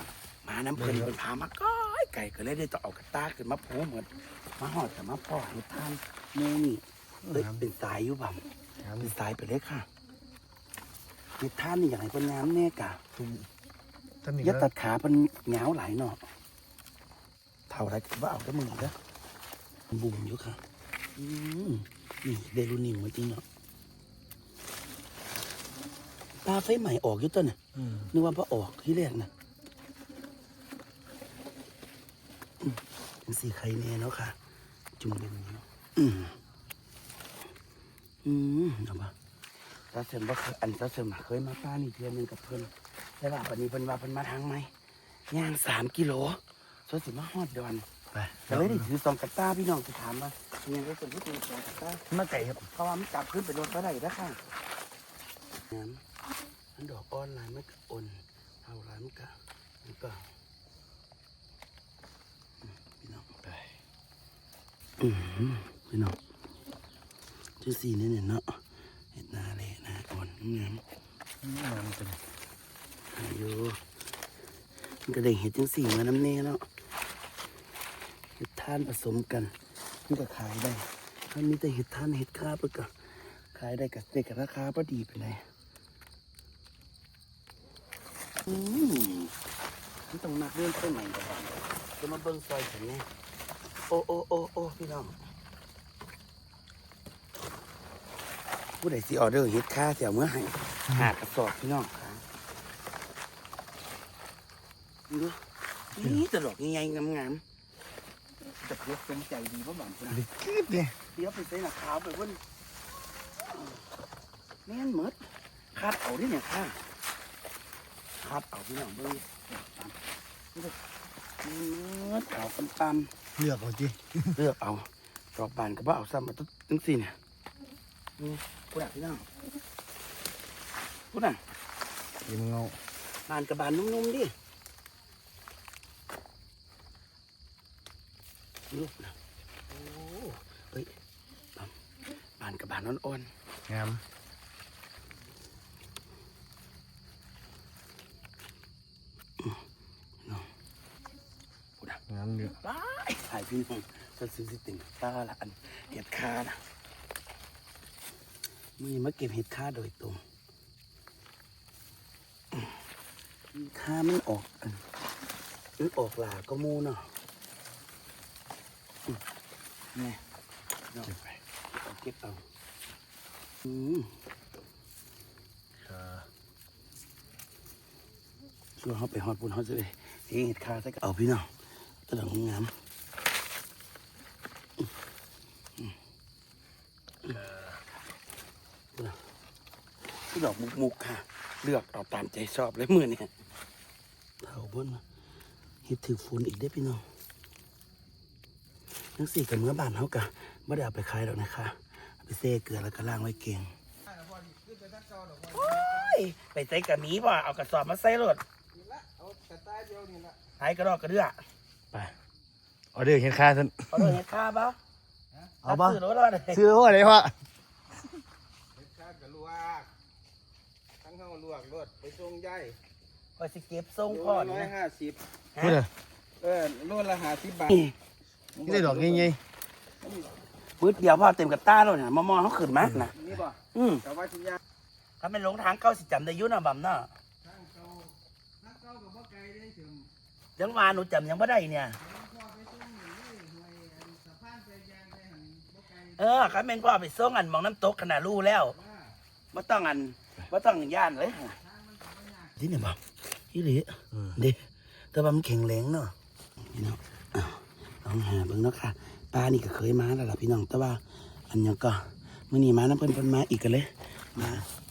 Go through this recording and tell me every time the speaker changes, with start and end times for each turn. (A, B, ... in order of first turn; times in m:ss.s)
0:00.4-0:08.4 A
0:00.8-0:01.1 B
0:07.2-0:07.6 B
0:08.8-0:09.1 B
0:09.0-0:09.9 A
0:11.4-0:13.0 A
0:13.2-0:13.5 B
0:14.2-0:14.7 B
0:14.4-0:16.2 A
0:17.7-0:19.0 A
0:19.9-0:20.6 A
0:21.2-0:23.4 A
0:26.4-0:27.6 A
0:27.8-0:28.1 B
0:28.1-0:29.3 A
0:32.6-0:34.4 A
0:35.0-0:36.4 A
0:38.2-0:39.1 A
0:39.9-0:44.7 A
0:45.3-0:47.8 A
0:48.1-0:48.9 B
0:48.5-0:54.4 A
0:55.7-0:56.0 A
0:56.8-1:00.2 A
1:02.9-1:03.3 A
1:05.0-1:06.2 A
1:07.6-1:08.6 A
1:09.1-1:10.8 A
1:11.4-1:12.2 B
1:13.1-1:13.8 A
1:15.1-1:16.6 A
1:18.4-1:19.6 A
1:20.1-1:22.9 A
1:23.5-1:25.4 A
1:28.4-1:29.3 A
1:30.1-1:33.1 A
1:33.9-1:35.2 A
1:38.8-1:42.2 A
1:45.1-1:45.4 A
1:45.9-1:47.4 A
1:48.6-1:50.2 A
1:50.1-1:51.0 B
1:51.1-1:52.4 A
1:53.5-1:53.8 A
1:54.7-1:55.2 A
1:55.7-1:56.8 A
1:58.2-2:00.0 A
2:01.4-2:03.1 A
2:03.4-2:04.4 B
2:04.3-2:07.2 A
2:08.2-2:09.3 A
2:11.1-2:11.4 A
2:12.2-2:12.8 B
2:13.3-2:14.3 A
2:18.7-2:19.1 A
2:19.7-2:20.9 A
2:22.4-2:23.3 A
2:23.7-2:24.0 B
2:32.1-2:32.6 B
2:32.6-2:36.6 A
2:38.8-2:40.2 A
2:43.5-2:44.8 A
2:45.8-2:47.1 A
2:50.0-2:50.2 A
2:50.9-2:52.4 A
2:53.6-2:54.1 A
2:55.8-2:56.3 B
2:58.8-3:01.5 A
3:02.1-3:02.7 A
3:07.5-3:07.8 B
3:09.0-3:09.2 A
3:10.3-3:13.3 A
3:14.4-3:15.0 A
3:15.8-3:17.0 A
3:19.2-3:23.7 A
3:25.4-3:28.4 A
3:29.2-3:30.1 C
3:30.6-3:31.4 A
3:32.9-3:34.2 B
3:33.9-3:34.8 A
3:35.6-3:36.0 B
3:35.6-3:36.6 A
3:36.5-3:37.3 B
3:39.3-3:39.6 C
3:41.2-3:41.9 C
3:43.4-3:44.8 A
3:45.5-3:45.8 A
3:45.6-3:45.9 B
3:46.4-3:47.3 C
3:47.5-3:48.0 A
3:48.6-3:49.4 B
3:50.8-3:54.1 A
3:52.8-3:53.4 B
3:55.2-3:57.1 A
4:00.6-4:02.0 A
4:05.9-4:08.8 A
4:09.5-4:11.6 A
4:12.6-4:24.6 A
4:14.1-4:14.4 B
4:24.4-4:24.7 B